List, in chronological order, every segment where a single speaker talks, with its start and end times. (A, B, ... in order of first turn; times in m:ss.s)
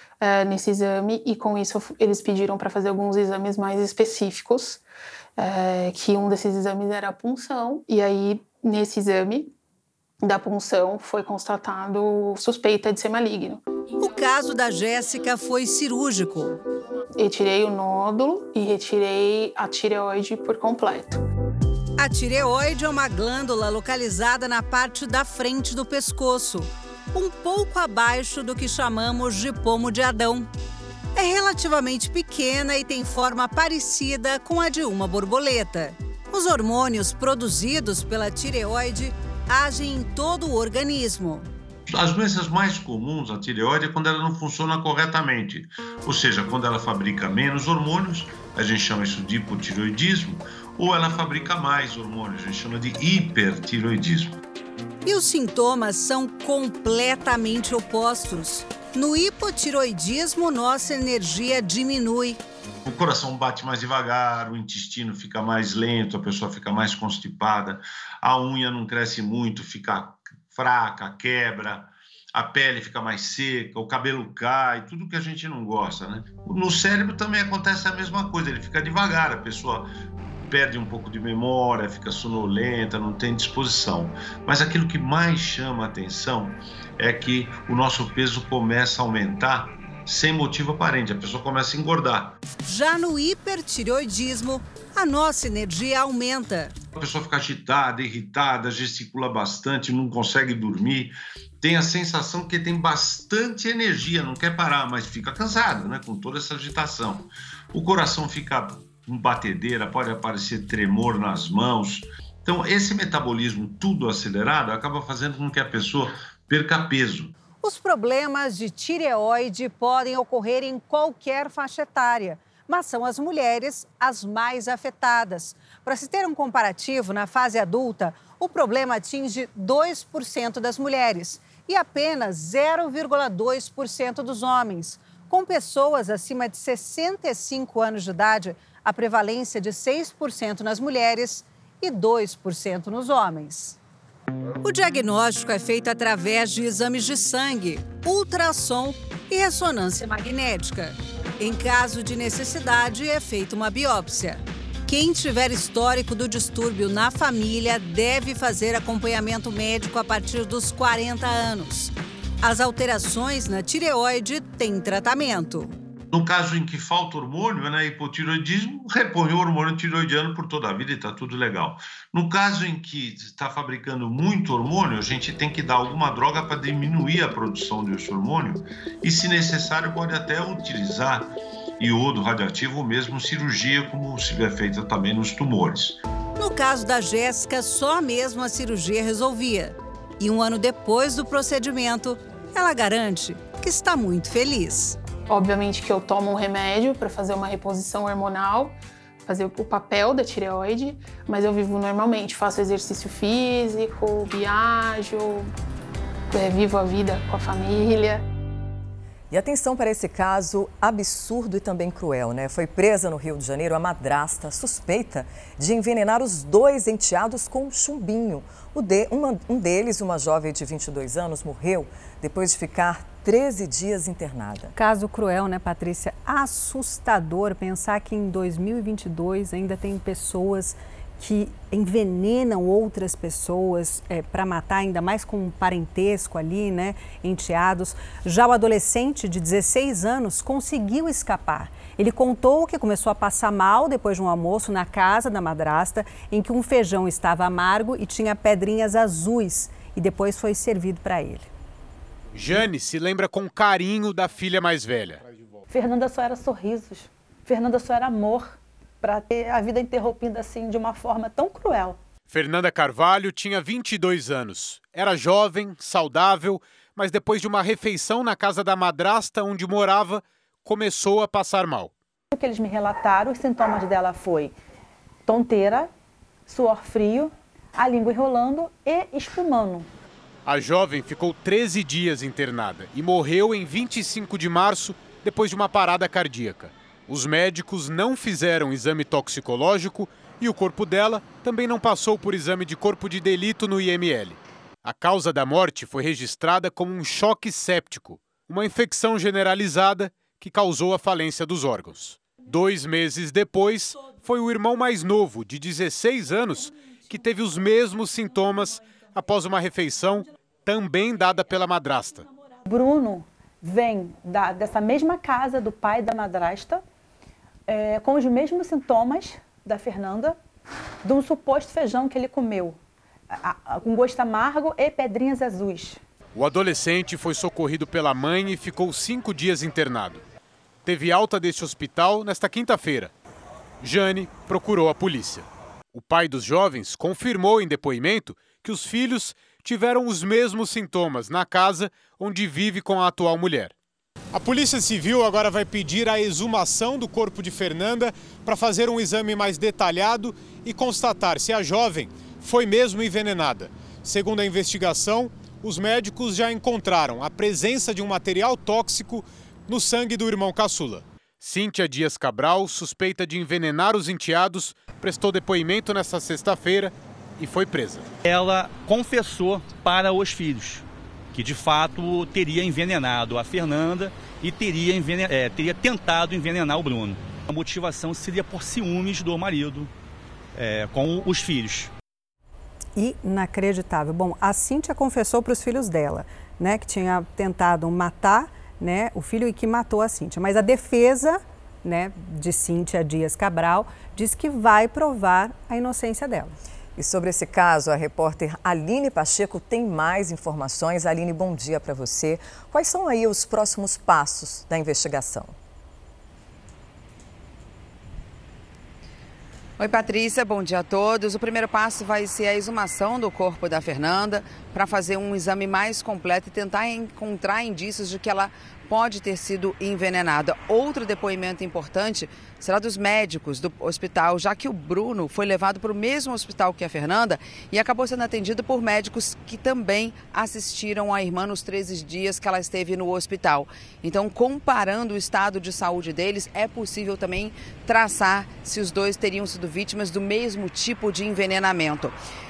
0:00.2-0:04.8 A
0:05.4-0:09.5 A
0:10.2-0:13.6 A
0:14.0-0:16.6 B
0:17.2-0:21.2 A
0:22.0-0:30.5 B
0:31.2-0:41.5 B
0:41.9-0:54.4 C
0:55.0-1:02.4 B
1:02.8-1:19.9 C
1:20.5-1:32.4 C
1:32.7-1:36.8 B
1:37.0-1:57.3 C
1:57.6-2:14.6 B
2:15.3-2:17.7 B
2:18.3-2:23.7 B
2:24.6-2:45.7 B
2:46.1-3:06.0 C
3:06.4-3:15.0 B
3:15.3-3:25.5 A
3:26.3-3:28.2 A
3:29.3-3:44.7 D
3:44.8-4:11.5 E
4:12.4-4:15.2 F
4:15.7-4:22.0 G
4:22.3-4:31.9 F
4:32.3-4:34.5 G
4:35.3-4:35.9 G
4:36.5-4:39.9 G
4:40.5-5:12.3 F
5:12.7-5:16.8 G
5:17.7-5:20.4 G
5:21.0-5:22.8 G
5:23.3-5:26.0 G
5:26.4-5:30.2 F
5:30.8-5:33.1 F
5:33.8-5:43.7 F
5:44.3-6:08.1 F
6:08.2-6:19.9 H
6:20.6-6:21.9 H
6:23.0-6:36.6 E
6:37.0-6:45.5 D
6:49.8-7:22.1 I